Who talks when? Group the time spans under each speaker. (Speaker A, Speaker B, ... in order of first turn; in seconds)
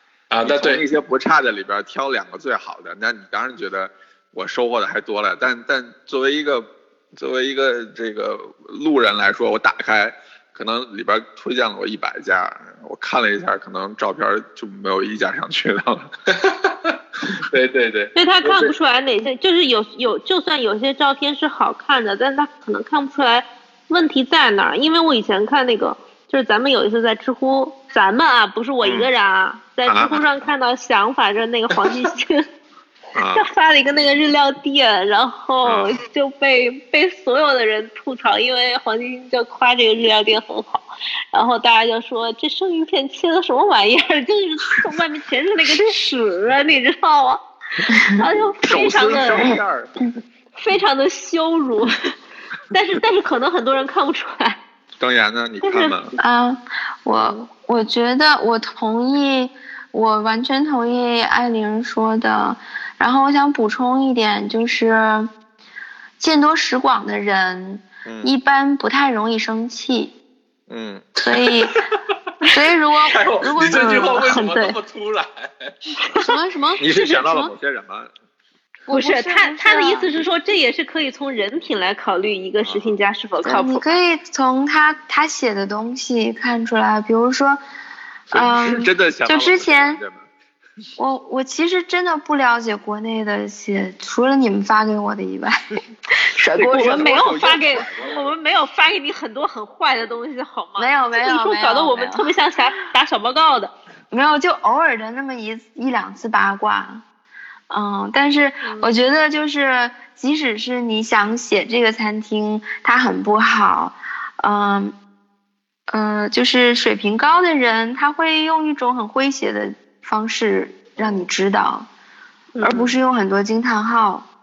Speaker A: 0.3-0.8, 16.3-18.7, 71.5-71.8, 73.0-75.8
Speaker B: 0.5-16.1, 28.8-29.1, 29.9-30.2, 33.1-33.5, 35.6-36.0, 48.6-50.0, 55.0-56.2, 68.0-68.3, 70.7-71.1, 76.8-78.1, 82.6-82.9, 88.3-90.3, 96.5-98.3, 121.0-121.3
Speaker C: 18.1-32.5, 33.3-49.5, 50.6-52.0, 52.7-54.6, 55.6-56.2, 73.7-74.8, 76.0-76.3, 76.8-77.3, 78.9-83.9, 96.7-103.7, 108.6-108.9, 122.5-123.0
Speaker D: 47.9-48.2, 56.2-65.3, 66.2-70.2, 71.2-71.8, 72.5-74.2, 76.2-77.5, 78.9-80.1, 83.4-87.6, 88.3-90.0, 91.0-97.3, 100.8-102.3, 104.1-107.0, 107.7-115.0, 115.9-121.9, 122.6-124.3